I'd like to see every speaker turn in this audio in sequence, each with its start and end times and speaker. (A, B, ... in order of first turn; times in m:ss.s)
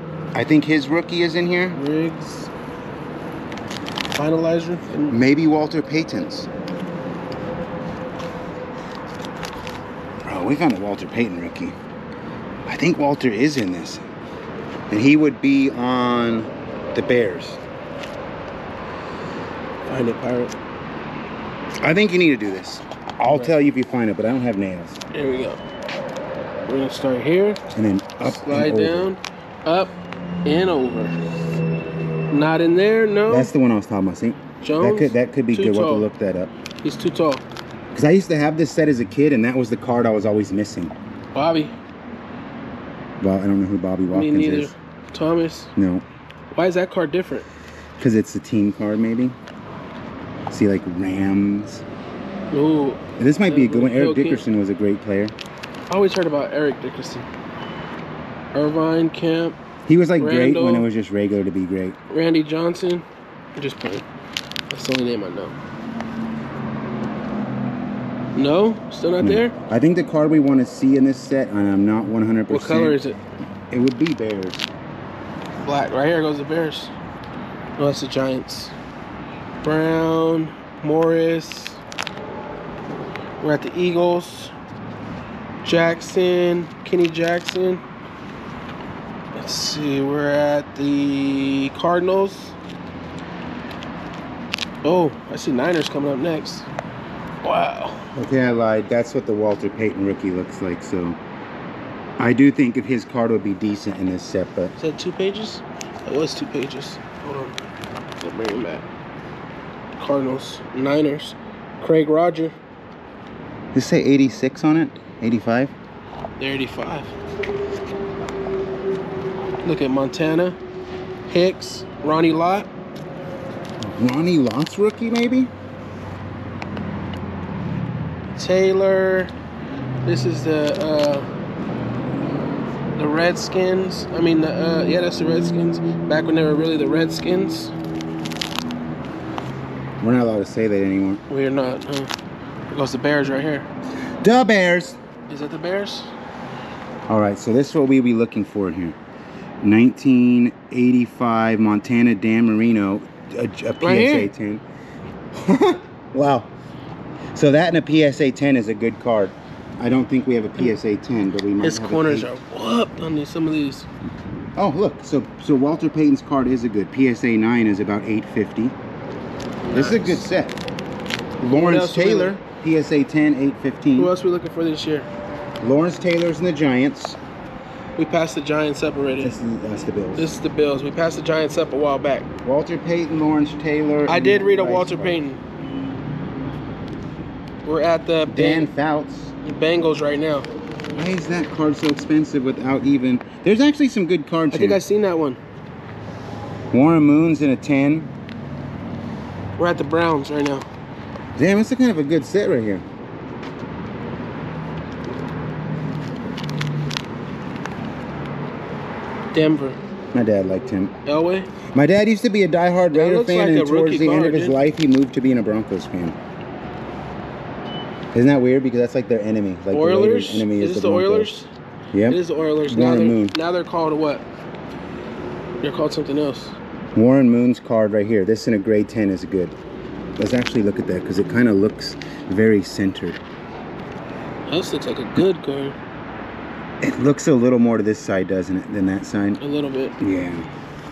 0:00.3-0:01.8 A
0:01.7-0:02.5 B
0:04.2-0:05.2 B
0:05.1-0:06.5 A
0:10.2-0:11.8 A
0:12.7-0:14.0 A
0:14.9-0:17.6 A
0:19.9-0:20.6 B
0:21.8-0:25.0 A
0:25.1-0:25.6 B
0:26.7-0:27.6 B
0:27.7-0:29.1 A
0:28.2-0:29.9 B
0:30.4-0:31.2 B
0:32.3-0:33.5 B
0:33.3-0:36.5 A
0:34.6-0:36.1 B
0:36.8-0:37.4 B
0:37.9-0:41.0 A
0:41.3-0:41.8 B
0:43.2-0:44.7 A
0:44.1-0:45.7 B
0:45.8-0:46.0 A
0:46.5-0:47.5 B
0:48.0-0:49.4 A
0:50.5-0:51.8 A
0:52.5-0:54.4 B
0:53.2-0:55.4 A
0:55.9-0:57.3 B
0:58.5-0:59.6 B
0:59.9-1:02.0 A
1:00.2-1:00.9 B
1:02.1-1:03.0 B
1:03.6-1:04.1 B
1:04.7-1:05.6 B
1:08.4-1:09.6 B
1:09.2-1:13.0 A
1:12.5-1:13.2 B
1:13.7-1:14.6 A
1:15.6-1:16.9 B
1:17.8-1:18.8 B
1:19.6-1:21.8 B
1:23.4-1:24.5 B
1:25.6-1:27.8 B
1:29.4-1:32.6 B
1:34.8-1:36.7 B
1:37.4-1:38.1 B
1:38.2-1:41.2 A
1:42.2-1:44.7 A
1:44.8-1:47.6 B
1:48.2-1:48.8 B
1:50.0-1:52.6 B
1:53.7-1:55.7 A
1:56.4-1:57.1 B
1:59.6-2:00.6 B
2:01.3-2:02.7 B
2:03.8-2:05.5 A
2:08.3-2:09.3 B
2:10.0-2:11.3 B
2:13.0-2:17.7 B
2:20.0-2:21.2 A
2:21.3-2:22.1 B
2:22.7-2:23.7 B
2:24.2-2:25.0 A
2:25.3-2:26.1 B
2:27.1-2:29.0 A
2:29.6-2:34.6 A
2:33.8-2:34.3 B
2:35.3-2:36.5 A
2:37.3-2:42.3 A
2:41.6-2:43.9 B
2:44.6-2:48.8 A
2:49.6-2:50.2 B
2:49.7-2:50.6 A
2:51.4-2:54.1 A
2:51.5-2:52.4 B
2:54.0-2:55.1 B
2:55.6-2:57.2 A
2:58.0-2:59.4 B
2:59.2-3:00.3 A
3:00.2-3:02.3 B
3:02.4-3:05.2 A
3:04.1-3:05.4 B
3:07.6-3:08.7 B
3:08.3-3:09.3 A
3:09.4-3:10.5 B
3:10.9-3:14.8 A
3:14.5-3:15.4 B
3:16.7-3:18.1 A
3:19.6-3:20.7 B
3:21.4-3:22.8 A
3:29.3-3:29.8 B
3:30.1-3:31.0 A
3:31.0-3:31.5 B
3:31.7-3:36.2 A
3:32.9-3:34.6 B
3:38.1-3:41.3 A
3:39.7-3:41.5 B
3:41.9-3:43.4 A
3:42.1-3:44.2 B
3:45.6-3:46.6 B
3:47.0-3:49.6 A
3:50.2-3:53.2 A
3:54.5-3:55.8 B
3:56.8-3:59.4 A
3:59.4-4:00.0 B
4:00.0-4:00.5 A